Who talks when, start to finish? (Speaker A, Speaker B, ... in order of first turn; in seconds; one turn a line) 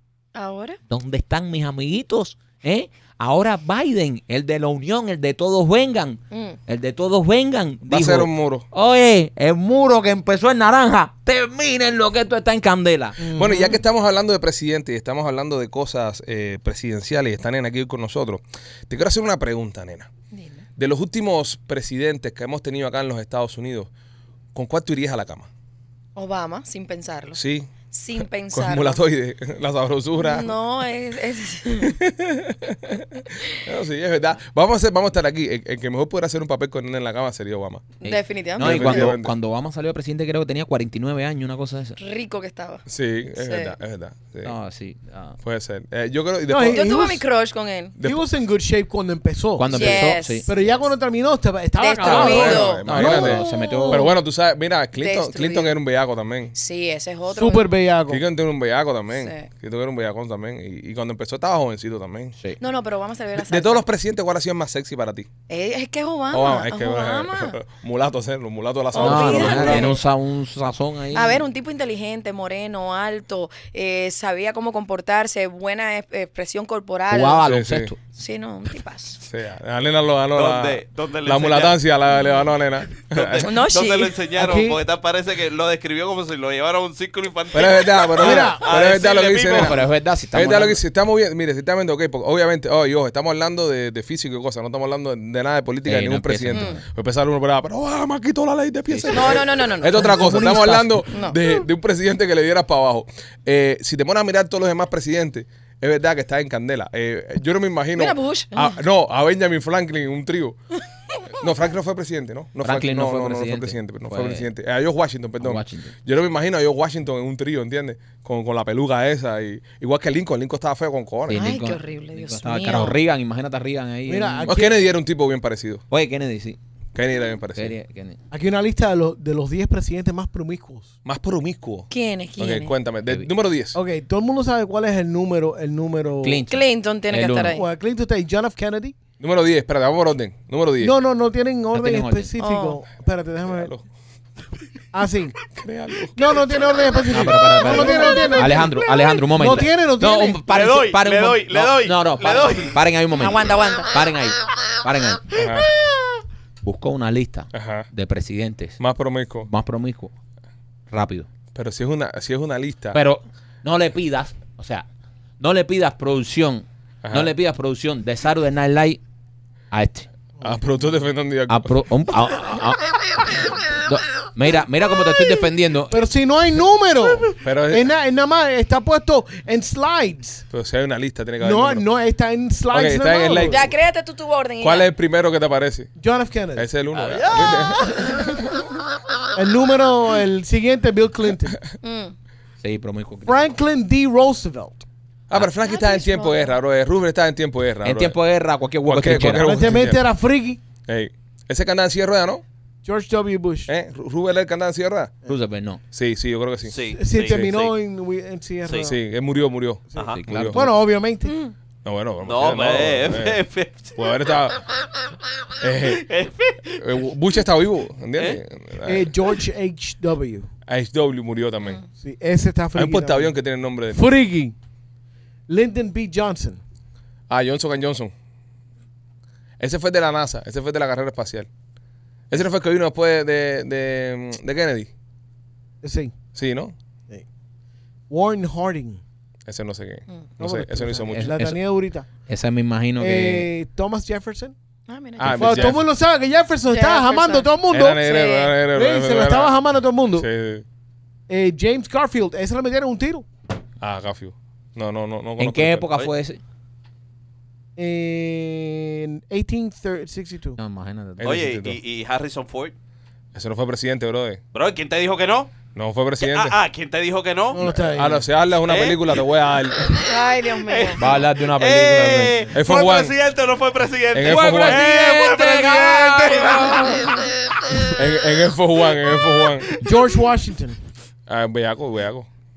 Speaker A: 0.3-0.8
Speaker B: 0.9-13.2
Speaker C: 7.9-8.7
Speaker D: 13.2-13.8
Speaker C: 13.3-20.1
Speaker A: 20.3-20.6
Speaker C: 20.8-23.9
Speaker C: 24.5-25.5
Speaker A: 26.1-29.0
Speaker C: 27.3-27.7
Speaker C: 28.5-30.5
Speaker A: 30.2-32.0
Speaker C: 31.8-37.9
Speaker A: 38.0-39.1
Speaker B: 38.0-42.0
Speaker C: 38.6-39.3
Speaker A: 42.0-42.9
Speaker C: 42.9-44.5
Speaker A: 43.4-43.7
Speaker B: 44.4-45.4
Speaker C: 45.4-47.1
Speaker D: 46.5-47.2
Speaker A: 46.7-47.9
Speaker C: 48.0-48.2
Speaker D: 48.0-54.0
Speaker B: 49.6-50.5
Speaker A: 49.7-50.5
Speaker A: 51.8-54.0
Speaker C: 52.0-56.5
Speaker B: 52.0-54.1
Speaker A: 55.0-55.8
Speaker A: 56.5-57.7
Speaker D: 57.3-58.2
Speaker C: 58.1-62.3
Speaker A: 59.1-59.5
Speaker A: 62.6-63.8
Speaker C: 63.4-65.3
Speaker A: 65.5-67.5
Speaker C: 66.3-70.0
Speaker A: 68.9-70.0
Speaker B: 69.0-71.4
Speaker A: 71.1-77.4
Speaker B: 77.1-78.0
Speaker C: 77.5-77.9
Speaker A: 78.1-79.2
Speaker C: 79.2-83.5
Speaker E: 80.3-81.8
Speaker E: 83.0-89.8
Speaker A: 83.4-84.2
Speaker D: 84.3-84.8
Speaker C: 87.5-89.8
Speaker D: 88.2-88.7
Speaker B: 89.5-90.8
Speaker C: 90.3-110.6
Speaker B: 95.8-96.8
Speaker A: 96.5-96.8
Speaker B: 98.9-99.4
Speaker A: 99.1-100.2
Speaker D: 99.9-101.1
Speaker A: 101.1-101.4
Speaker A: 107.9-108.8
Speaker C: 111.3-121.5
Speaker B: 112.6-114.5
Speaker B: 115.4-115.9
Speaker B: 121.3-124.5
Speaker A: 121.3-123.0
Speaker D: 124.0-124.9
Speaker C: 124.5-125.8
Speaker B: 125.9-126.6
Speaker C: 126.9-127.7
Speaker B: 127.6-128.2
Speaker D: 128.3-130.9
Speaker C: 131.0-133.8
Speaker A: 131.9-132.7
Speaker D: 133.7-136.4
Speaker B: 136.2-137.6
Speaker A: 136.5-137.7
Speaker D: 137.5-138.9
Speaker C: 139.2-140.9
Speaker D: 140.8-143.7
Speaker B: 141.7-142.3
Speaker A: 142.4-142.8
Speaker C: 143.5-143.8
Speaker D: 144.9-145.4
Speaker C: 145.5-146.2
Speaker D: 146.1-150.4
Speaker B: 147.1-155.3
Speaker E: 150.4-152.8
Speaker A: 153.1-153.9
Speaker C: 155.3-155.7
Speaker B: 156.6-158.8
Speaker C: 157.5-157.9
Speaker C: 158.8-159.5
Speaker B: 159.5-160.1
Speaker B: 160.9-161.3
Speaker C: 161.5-163.0
Speaker B: 162.9-164.8
Speaker B: 165.4-169.0
Speaker C: 167.0-167.3
Speaker B: 169.7-170.1
Speaker C: 170.4-171.8
Speaker B: 171.5-176.0
Speaker D: 175.9-180.4
Speaker C: 177.4-177.9
Speaker C: 180.5-181.9
Speaker D: 181.4-183.7
Speaker C: 182.7-183.7
Speaker A: 183.5-184.9
Speaker C: 184.6-185.9
Speaker D: 185.9-186.7
Speaker C: 186.5-188.0
Speaker E: 186.9-187.7
Speaker D: 189.3-191.6
Speaker A: 191.8-192.1
Speaker B: 192.6-193.5
Speaker D: 193.2-194.8
Speaker C: 195.3-198.2
Speaker A: 195.6-196.6
Speaker B: 197.8-199.5
Speaker C: 198.8-200.0
Speaker D: 199.3-200.6
Speaker C: 200.9-202.4
Speaker D: 202.8-203.7
Speaker C: 203.7-205.1
Speaker B: 205.2-205.8
Speaker C: 205.9-206.8
Speaker E: 206.7-207.7
Speaker D: 206.9-208.9
Speaker E: 208.6-208.9
Speaker C: 208.8-210.6
Speaker E: 209.9-210.2
Speaker D: 209.9-211.3
Speaker B: 210.2-210.7
Speaker A: 211.2-211.5
Speaker C: 211.8-213.4
Speaker E: 212.2-214.4
Speaker C: 213.9-214.6
Speaker C: 215.6-216.1
Speaker E: 215.8-216.8
Speaker C: 216.8-219.1
Speaker D: 218.8-220.5
Speaker C: 220.7-221.8
Speaker D: 222.0-223.4
Speaker C: 222.7-224.0
Speaker D: 223.9-224.5
Speaker D: 225.5-226.6
Speaker C: 227.3-228.1
Speaker C: 229.6-231.5
Speaker C: 232.3-234.9
Speaker D: 235.8-236.1
Speaker C: 236.3-236.7
Speaker D: 238.1-239.0
Speaker C: 239.4-241.3
Speaker D: 240.4-242.1
Speaker B: 241.1-241.6
Speaker B: 242.3-243.5
Speaker D: 243.0-244.5
Speaker A: 244.9-245.8
Speaker C: 245.2-245.8
Speaker D: 245.3-248.1
Speaker A: 246.7-247.5
Speaker C: 247.7-249.5
Speaker A: 248.0-248.5
Speaker D: 248.7-250.3
Speaker C: 250.2-250.6
Speaker D: 251.3-253.2
Speaker C: 253.8-255.9
Speaker B: 255.4-256.4
Speaker D: 257.8-260.6
Speaker B: 260.6-261.3
Speaker C: 261.2-261.8
Speaker E: 261.2-262.7
Speaker C: 263.3-264.4
Speaker E: 264.5-265.5
Speaker C: 265.7-266.6
Speaker E: 266.2-267.6
Speaker D: 267.5-268.2
Speaker C: 267.6-270.0
Speaker E: 268.6-269.2
Speaker E: 269.8-278.0
Speaker A: 270.0-271.0
Speaker B: 271.0-272.4
Speaker C: 272.5-273.1
Speaker C: 274.1-274.9
Speaker B: 274.2-276.9
Speaker A: 276.3-277.1
Speaker C: 277.9-279.7
Speaker E: 279.1-279.9
Speaker D: 279.8-280.8
Speaker C: 281.3-282.3